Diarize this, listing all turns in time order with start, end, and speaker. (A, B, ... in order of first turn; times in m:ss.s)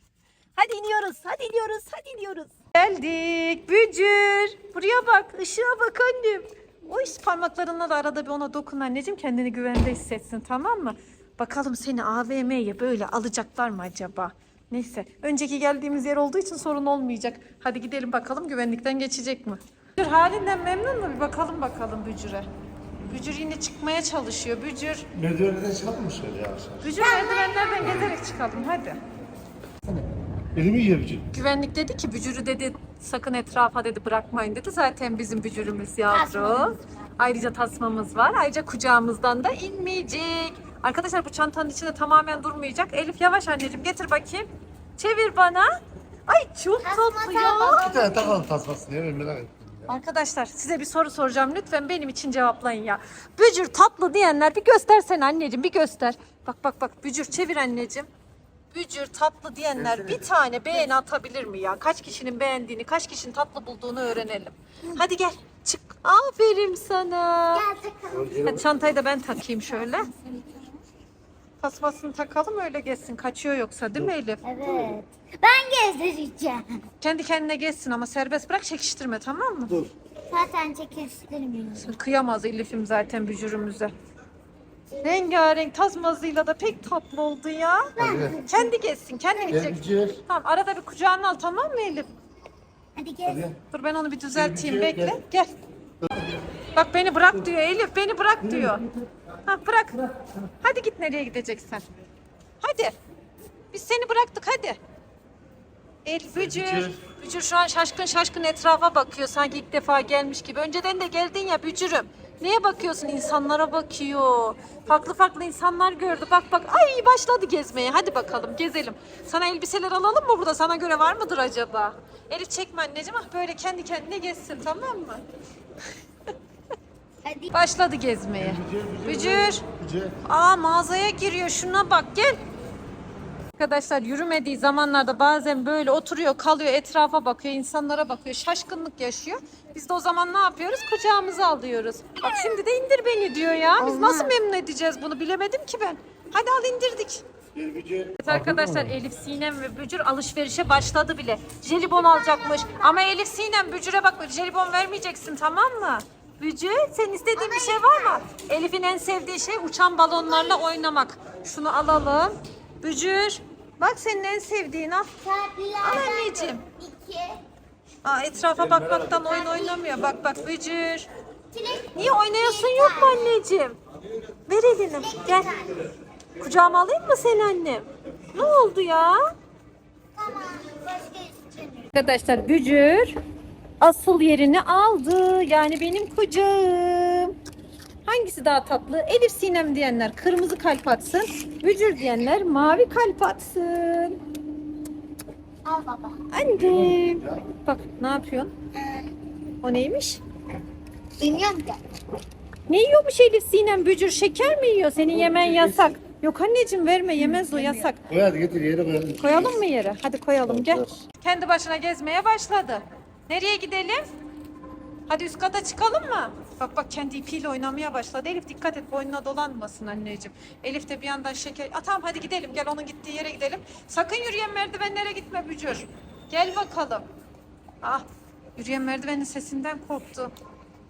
0:00.6-0:22.5 A
0:23.0-0:25.1 A
0:25.1-0:26.9 B
0:26.8-0:29.0 A
0:27.0-0:28.0 C
0:27.8-0:28.1 B
0:29.8-0:31.2 B
0:31.3-0:45.7 A
0:36.1-0:36.8 C
0:46.3-0:47.8 A
0:46.8-0:48.5 C
0:47.6-0:49.9 B
0:49.9-0:58.1 A
0:58.7-1:07.6 A
0:59.8-1:00.2 B
1:07.5-1:08.4 C
1:08.1-1:08.9 B
1:08.4-1:10.1 A
1:09.6-1:10.8 C
1:11.6-1:14.4 A
1:14.4-1:16.9 C
1:14.6-1:14.9 B
1:17.0-1:19.8 A
1:20.3-1:21.9 C
1:21.8-1:23.9 A
1:25.0-1:27.9 A
1:28.0-1:28.7 C
1:28.0-1:28.4 B
1:28.5-1:32.1 A
1:29.5-1:30.2 B
1:33.0-1:33.5 C
1:33.2-1:33.6 B
1:33.7-1:35.5 A
1:34.3-1:35.2 B
1:36.0-1:36.4 B
1:36.8-1:38.8 A
1:38.4-1:39.0 B
1:39.4-1:40.0 A
1:40.6-1:41.8 A
1:42.6-1:42.9 A
1:43.7-1:44.8 A
1:46.0-2:05.2 A
1:46.4-1:47.0 B
2:07.2-2:07.5 C
2:07.5-2:09.6 A
2:08.4-2:10.2 B
2:10.2-2:12.4 A
2:13.6-2:27.2 A
2:23.8-2:24.4 C
2:27.5-2:28.9 B
2:28.2-2:45.1 A
2:32.3-2:32.8 C
2:37.4-2:38.2 C
2:40.3-2:40.6 C
2:45.2-2:47.4 C
2:45.8-2:46.6 A
2:48.0-2:51.1 A
2:48.6-2:49.2 B
2:49.3-2:50.1 C
2:51.5-2:53.3 C
2:51.9-2:53.8 A
2:54.5-2:55.6 A
2:55.0-2:55.8 C
2:56.4-2:59.2 A
3:00.2-3:01.9 C
3:01.9-3:03.2 A
3:03.8-3:07.3 A
3:08.0-3:14.2 A
3:15.6-3:16.2 C
3:16.3-3:18.5 A
3:16.6-3:17.4 B
3:18.8-3:19.1 C
3:19.6-3:20.2 A
3:21.2-3:21.8 C
3:22.7-3:28.0 A
3:25.1-3:25.9 B
3:27.2-3:27.8 C
3:28.1-3:29.6 B
3:29.2-3:34.0 A
3:30.5-3:30.9 B
3:35.1-3:47.0 A
3:48.6-3:50.3 A